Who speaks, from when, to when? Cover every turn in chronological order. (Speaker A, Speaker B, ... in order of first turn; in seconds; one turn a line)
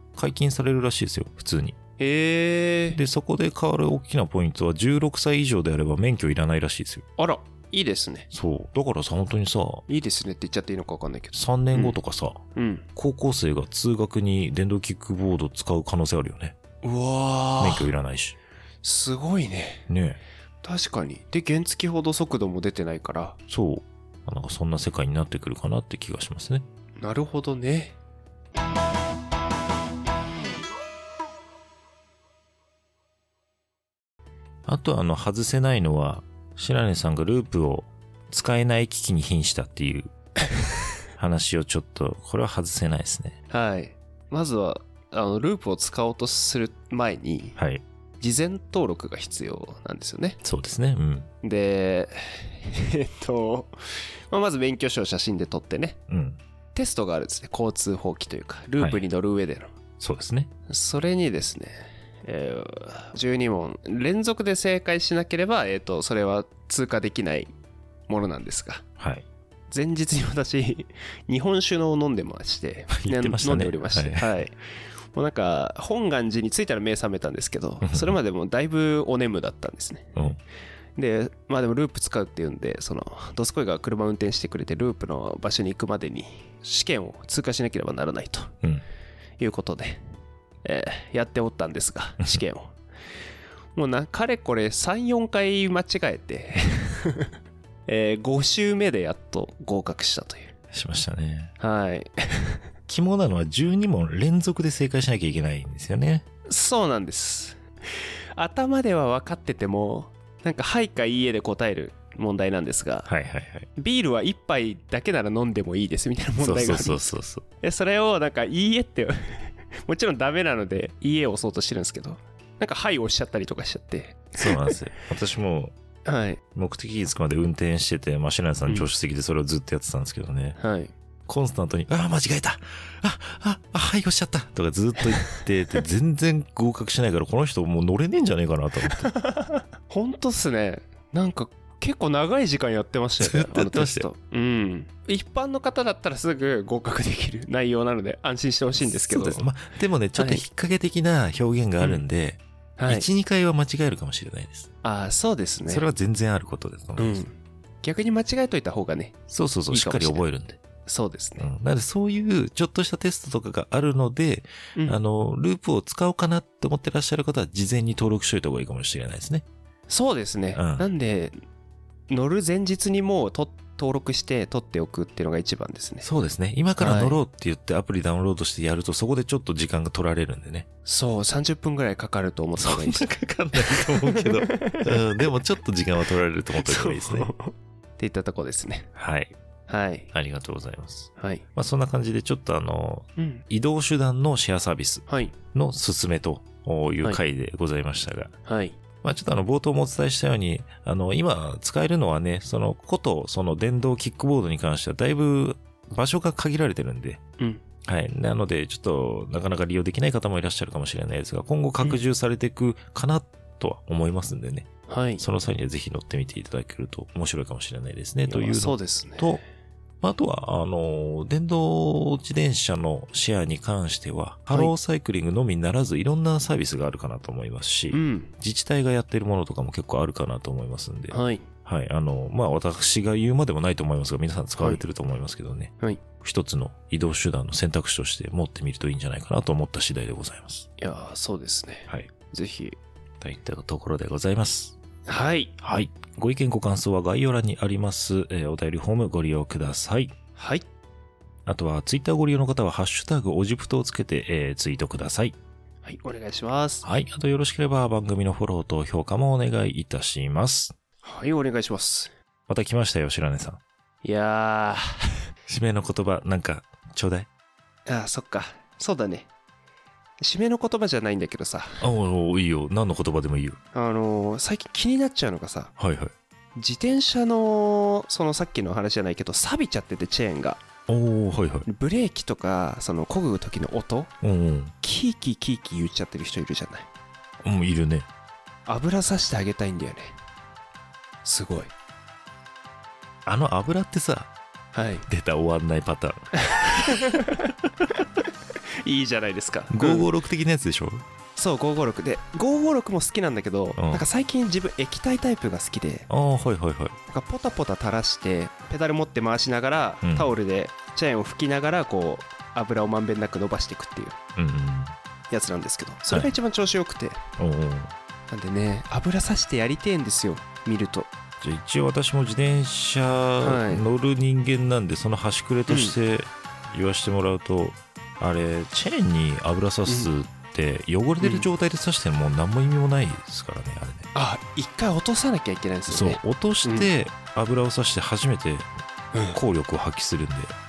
Speaker A: 0.2-1.8
Speaker B: 2.0-3.0
Speaker A: 2.9-7.0
Speaker B: 7.2-8.3
Speaker A: 8.3-9.8
Speaker B: 9.9-12.0
Speaker A: 11.3-12.4
Speaker B: 12.6-12.9
Speaker A: 12.9-16.6
Speaker B: 16.8-17.9
Speaker A: 17.6-18.4
Speaker B: 18.8-19.9
Speaker A: 19.9-20.2
Speaker B: 20.6-23.4
Speaker A: 23.5-26.6
Speaker B: 27.0-28.0
Speaker A: 34.7-40.1
Speaker A: 41.2-43.4
Speaker B: 43.5-47.6
Speaker A: 47.6-47.8
Speaker B: 48.2-50.4
Speaker A: 50.4-51.3
Speaker B: 51.4-53.7
Speaker B: 54.3-56.0
Speaker A: 56.1-56.4
Speaker B: 56.8-59.7
Speaker A: 58.8-59.0
Speaker A: 60.0-60.5
Speaker B: 60.7-67.5
Speaker B: 68.1-68.8
Speaker A: 69.0-69.3
Speaker B: 69.7-74.6
Speaker A: 72.9-74.4
Speaker B: 75.1-80.1
Speaker A: 77.8-78.2
Speaker A: 80.2-80.4
Speaker B: 81.0-88.5
Speaker B: 89.4-90.0
Speaker B: 90.6-92.8
Speaker B: 93.8-97.3
Speaker B: 97.9-100.5
Speaker A: 100.7-101.5
Speaker B: 101.6-102.6
Speaker A: 102.9-106.2
Speaker B: 106.5-107.6
Speaker B: 108.3-113.1
Speaker A: 113.1-113.7
Speaker B: 113.8-124.7
Speaker A: 116.4-117.4
Speaker A: 124.4-125.7
Speaker B: 126.1-126.4
Speaker A: 126.5-130.6
Speaker B: 130.6-130.9
Speaker A: 131.3-139.1
Speaker B: 139.0-149.4
Speaker A: 143.2-144.1
Speaker A: 148.8-154.7
Speaker B: 150.2-150.4
Speaker B: 152.8-153.1
Speaker B: 154.8-155.8
Speaker A: 155.7-157.2
Speaker B: 157.0-160.2
Speaker A: 159.3-160.6
Speaker B: 160.9-161.5
Speaker A: 161.4-169.5
Speaker B: 169.9-171.3
Speaker A: 170.6-170.9
Speaker B: 172.1-176.1
Speaker A: 176.0-180.7
Speaker B: 176.8-177.2
Speaker B: 180.9-185.3
Speaker A: 182.6-187.3
Speaker B: 186.7-188.9
Speaker A: 188.9-189.4
Speaker B: 189.7-190.1
Speaker A: 190.1-198.3
Speaker B: 191.2-191.4
Speaker B: 193.2-193.4
Speaker B: 195.1-195.4
Speaker B: 198.5-198.8
Speaker A: 199.0-207.2
Speaker A: 207.8-214.7
Speaker B: 214.9-215.2
Speaker A: 215.2-219.4
Speaker B: 218.3-219.4
Speaker A: 220.0-240.7
Speaker B: 227.9-228.3
Speaker B: 231.1-231.5
Speaker B: 240.8-242.8
Speaker A: 243.2-244.8
Speaker B: 245.1-245.6
Speaker A: 245.6-250.2
Speaker B: 250.4-250.7
Speaker A: 251.5-255.4
Speaker B: 255.8-256.9
Speaker A: 256.8-260.8
Speaker B: 261.0-262.1
Speaker A: 262.5-263.6
Speaker B: 264.0-264.8
Speaker A: 265.5-267.3
Speaker B: 267.9-269.3
Speaker B: 270.2-271.8
Speaker A: 271.8-273.6
Speaker B: 273.7-275.7
Speaker A: 275.8-276.1
Speaker B: 276.6-280.6
Speaker A: 280.9-281.7
Speaker B: 281.7-284.1
Speaker A: 284.2-284.7
Speaker B: 284.8-286.9
Speaker A: 287.4-288.1
Speaker B: 288.7-290.2
Speaker B: 291.2-291.7
Speaker A: 293.3-294.3
Speaker B: 294.7-295.1
Speaker A: 295.1-297.0
Speaker B: 296.5-297.4
Speaker B: 298.8-300.1
Speaker A: 299.7-301.0
Speaker B: 301.4-306.1
Speaker A: 303.8-304.1
Speaker A: 306.1-307.0
Speaker B: 307.1-314.2
Speaker A: 310.0-310.4
Speaker A: 314.4-314.9
Speaker B: 315.3-317.2
Speaker A: 316.1-316.4
Speaker A: 317.4-317.9
Speaker B: 318.3-321.1
Speaker A: 321.4-334.1
Speaker B: 323.4-323.9
Speaker B: 325.7-325.9
Speaker B: 331.2-331.5
Speaker B: 334.1-336.9
Speaker A: 335.9-338.7
Speaker A: 339.3-340.6